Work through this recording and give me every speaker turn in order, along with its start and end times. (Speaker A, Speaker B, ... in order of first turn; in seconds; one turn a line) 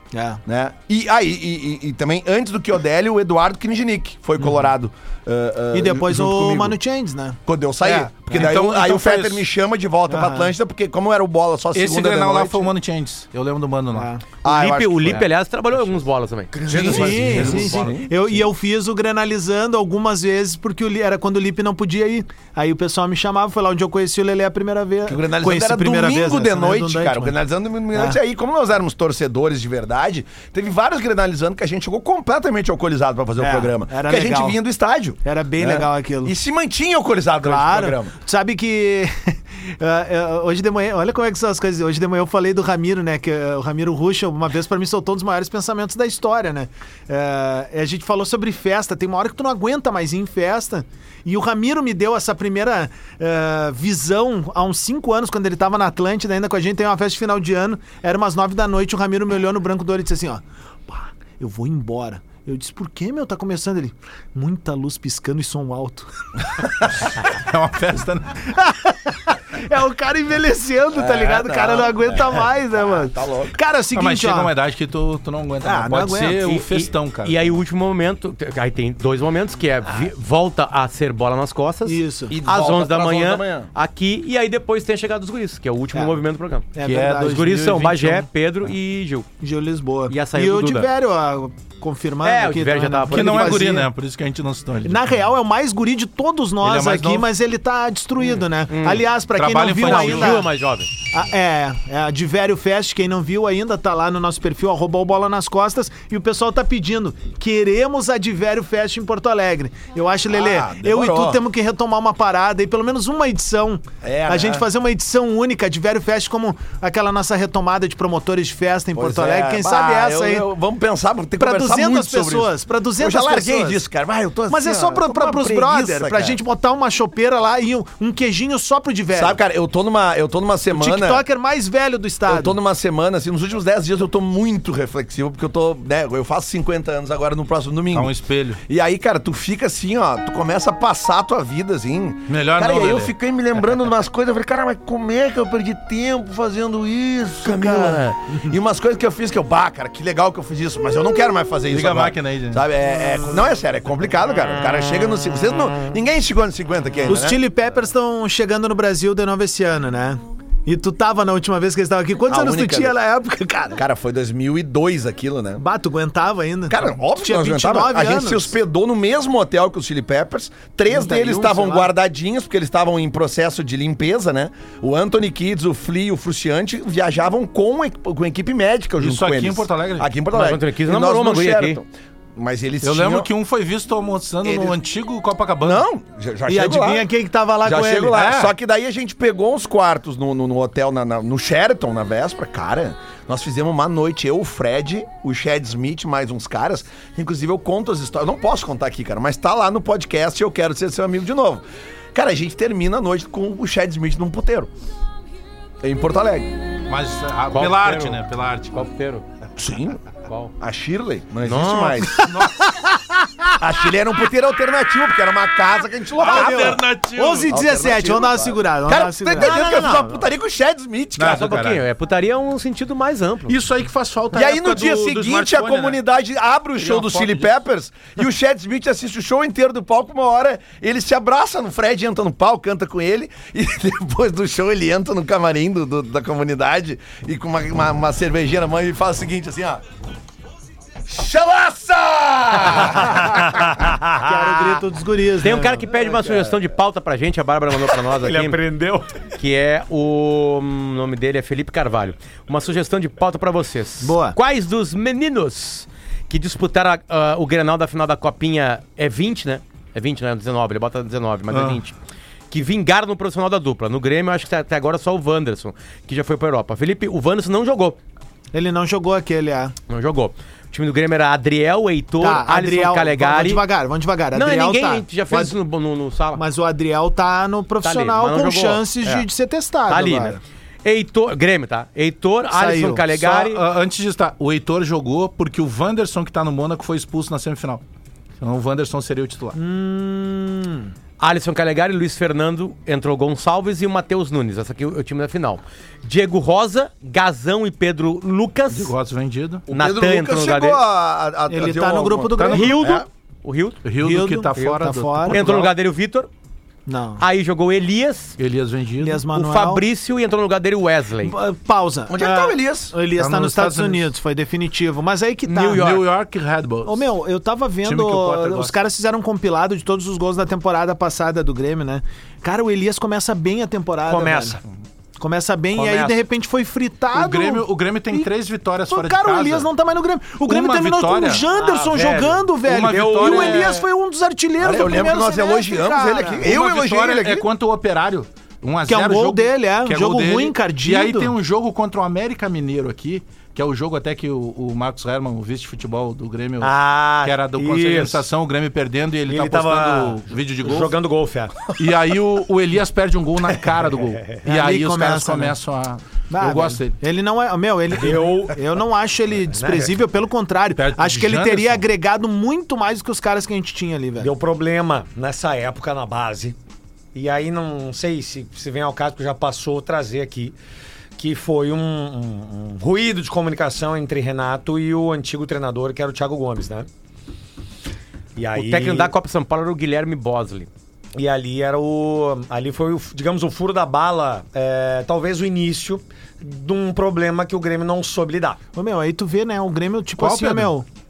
Speaker A: 0.1-0.4
Speaker B: 0.5-6.8
Speaker A: 5.7-7.4
Speaker B: 7.5-12.7
Speaker C: 7.8-9.4
Speaker A: 10.1-10.5
Speaker C: 11.7-14.1
Speaker A: 13.9-14.2
Speaker B: 14.4-15.3
Speaker D: 14.4-17.9
Speaker B: 16.5-18.3
Speaker C: 16.7-17.7
Speaker A: 16.7-27.3
Speaker E: 16.8-17.3
Speaker B: 25.1-38.1
Speaker A: 27.9-28.2
Speaker A: 33.4-34.6
Speaker A: 35.2-36.3
Speaker A: 37.4-67.2
Speaker C: 67.0-68.3
Speaker A: 68.4-74.5
Speaker B: 70.9-73.5
Speaker C: 73.9-77.6
Speaker A: 75.6-76.4
Speaker D: 76.4-86.7
Speaker A: 81.8-82.4
Speaker B: 82.3-83.7
Speaker A: 86.7-87.5
Speaker C: 86.8-88.3
Speaker D: 87.2-89.3
Speaker A: 89.4-93.9
Speaker D: 90.1-90.9
Speaker D: 92.2-93.7
Speaker C: 93.1-95.0
Speaker A: 94.8-100.5
Speaker C: 96.6-97.3
Speaker D: 98.7-99.1
Speaker C: 99.3-100.4
Speaker D: 99.8-100.9
Speaker A: 101.1-120.5
Speaker B: 110.3-111.4
Speaker B: 114.0-114.7
Speaker B: 118.9-126.4
Speaker A: 121.4-123.8
Speaker A: 124.5-129.4
Speaker B: 129.1-131.2
Speaker A: 130.7-132.6
Speaker B: 132.2-138.1
Speaker C: 137.9-138.6
Speaker B: 138.6-157.4
Speaker C: 142.3-143.1
Speaker A: 147.5-148.0
Speaker C: 151.7-152.6
Speaker A: 157.1-163.8
Speaker B: 162.3-162.9
Speaker B: 163.7-165.6
Speaker A: 165.6-168.5
Speaker B: 166.7-183.3
Speaker A: 170.9-171.9
Speaker C: 179.0-180.1
Speaker D: 180.3-181.8
Speaker C: 182.8-185.8
Speaker B: 184.4-184.8
Speaker B: 185.6-187.1
Speaker A: 186.5-188.2
Speaker B: 187.6-204.7
Speaker C: 188.1-188.5
Speaker B: 205.8-206.5
Speaker C: 206.9-208.8
Speaker D: 207.5-208.2
Speaker D: 208.7-209.2
Speaker B: 209.6-210.0
Speaker D: 210.2-210.5
Speaker B: 210.6-212.3
Speaker D: 211.4-212.2
Speaker A: 212.4-212.9
Speaker B: 213.6-216.8
Speaker C: 216.2-217.5
Speaker A: 216.2-219.6
Speaker B: 217.4-221.5
Speaker D: 219.3-220.3
Speaker C: 221.2-221.8
Speaker D: 221.2-223.6
Speaker C: 223.5-226.0
Speaker B: 224.3-239.8
Speaker C: 226.8-227.6
Speaker B: 241.0-243.7
Speaker E: 243.2-244.2
Speaker A: 244.1-245.8
Speaker D: 245.4-248.6
Speaker B: 245.9-246.6
Speaker E: 248.1-249.1
Speaker D: 249.4-261.9
Speaker A: 254.0-254.4
Speaker C: 261.5-261.8
Speaker D: 262.5-268.0
Speaker A: 268.5-269.7
Speaker D: 269.9-273.6
Speaker A: 272.2-275.5
Speaker D: 274.3-276.4
Speaker A: 276.4-280.4
Speaker D: 277.8-279.3
Speaker D: 279.9-283.6
Speaker A: 282.5-283.1
Speaker C: 283.1-287.8
Speaker C: 288.4-289.6
Speaker A: 289.5-290.9
Speaker D: 291.2-298.9
Speaker C: 298.7-299.7
Speaker B: 299.7-303.1
Speaker D: 299.7-300.8
Speaker A: 301.5-302.9
Speaker C: 302.4-302.8
Speaker D: 302.5-303.8
Speaker C: 303.8-305.7
Speaker A: 304.0-305.4
Speaker D: 305.3-306.3
Speaker A: 306.9-307.2
Speaker D: 307.2-308.4
Speaker C: 308.4-309.2
Speaker A: 309.0-309.8
Speaker D: 309.3-311.4
Speaker A: 311.2-315.9
Speaker B: 312.1-312.9
Speaker C: 313.1-314.1
Speaker D: 315.4-316.1
Speaker C: 315.7-317.1
Speaker A: 316.8-324.6
Speaker C: 317.8-318.8
Speaker E: 324.1-324.6
Speaker A: 325.2-328.3
Speaker E: 325.7-326.2
Speaker C: 327.1-329.7
Speaker A: 328.9-336.5
Speaker C: 330.4-333.8
Speaker E: 331.4-332.3
Speaker E: 332.8-333.8
Speaker B: 334.6-337.5
Speaker C: 336.4-350.9
Speaker A: 338.9-341.3
Speaker E: 346.6-348.2
Speaker E: 349.3-351.7
Speaker C: 351.7-357.0
Speaker E: 354.0-354.4
Speaker A: 354.4-355.5
Speaker A: 356.3-364.3
Speaker E: 357.9-358.6
Speaker E: 359.5-359.9
Speaker C: 360.8-361.8
Speaker E: 364.2-366.6
Speaker E: 367.1-370.6
Speaker E: 371.2-376.9
Speaker E: 378.4-379.1
Speaker D: 378.5-380.7
Speaker E: 381.1-388.6
Speaker A: 388.7-390.9
Speaker C: 390.2-390.7